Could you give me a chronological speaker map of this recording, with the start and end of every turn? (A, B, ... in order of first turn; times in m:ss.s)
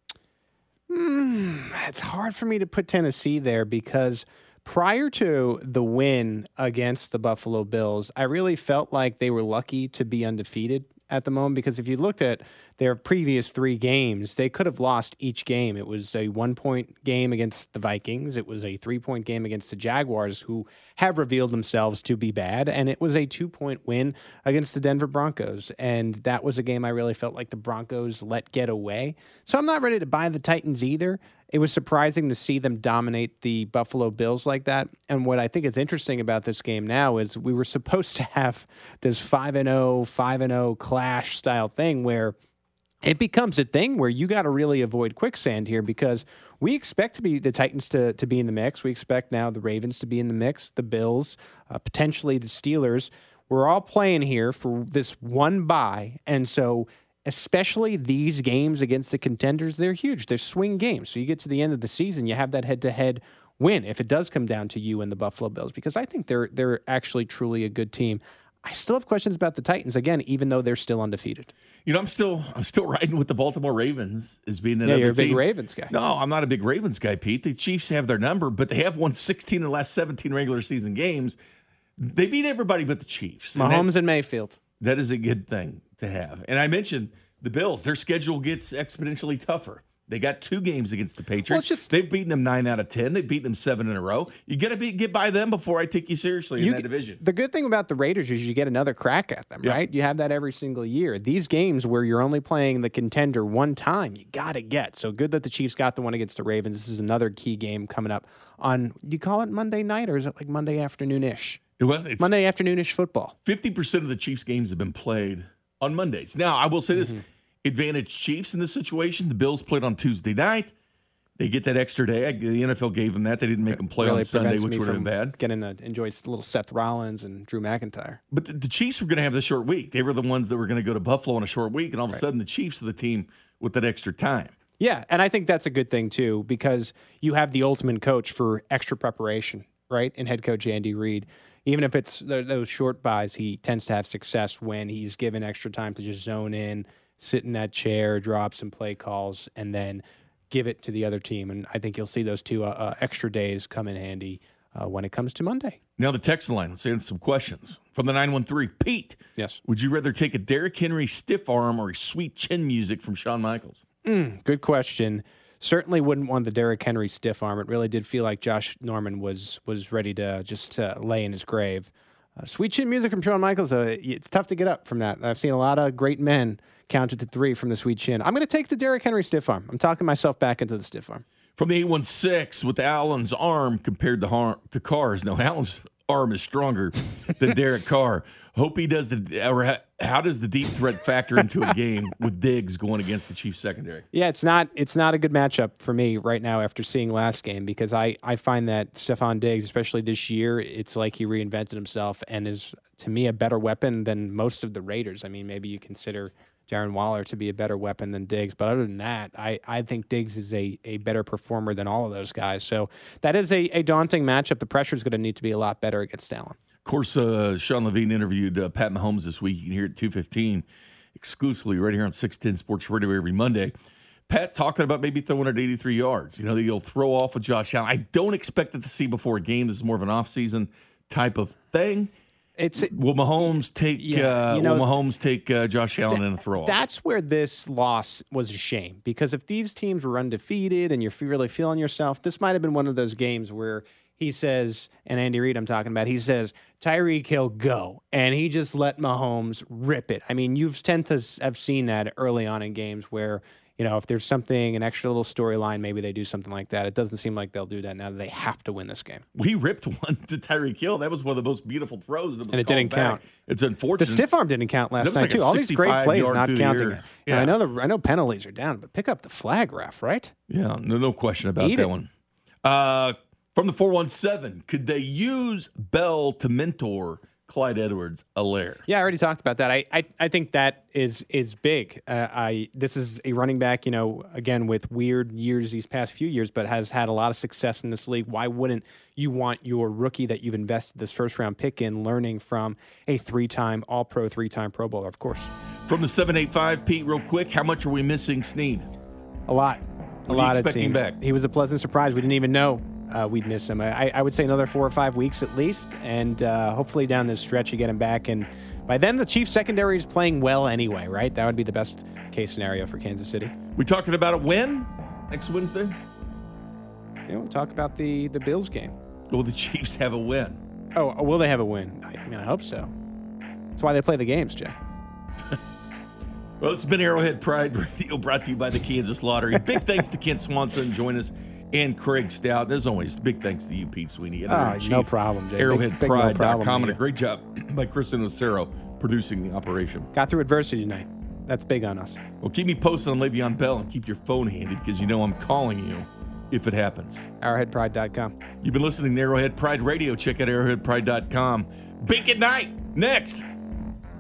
0:00.9-0:42.4 A
0:43.0-1:11.5 A
1:11.9-1:21.4 B
1:14.8-1:15.9 A
1:22.0-1:23.9 B
1:23.6-1:24.6 A
1:24.8-1:37.2 B
1:31.5-1:31.9 A
1:36.6-1:51.6 A
1:51.8-1:52.3 B
1:52.2-1:53.4 A
1:53.4-2:00.7 B
1:56.9-1:57.2 A
2:01.4-2:05.4 B
2:03.7-2:08.2 A
2:08.3-2:14.6 B
2:14.8-2:35.8 A
2:36.0-2:43.8 B
2:44.0-3:01.2 A
3:01.6-3:14.0 B
3:14.1-3:36.6 A
3:36.8-3:43.8 B
3:44.3-3:52.1 B
3:52.6-3:52.9 A
3:52.8-3:56.8 B
3:54.0-3:54.9 A
3:56.1-4:19.2 A
4:19.4-4:24.3 B
4:22.5-4:23.2 A
4:24.0-4:30.3 A
4:25.0-4:27.6 B
4:30.5-4:32.1 B
4:31.6-4:31.9 A
4:32.6-4:38.8 B
4:38.9-4:55.5 A
4:55.9-4:58.9 B
4:59.5-5:13.5 A
5:00.3-5:01.2 B
5:13.8-5:16.0 B
5:17.3-5:19.0 A
5:19.3-5:20.6 B
5:21.0-5:22.9 A
5:23.8-5:24.8 A
5:26.6-5:40.1 B
5:34.5-5:37.0 A
5:40.1-5:42.2 A
5:42.4-5:47.3 B
5:47.4-5:48.3 A
5:48.6-5:53.5 B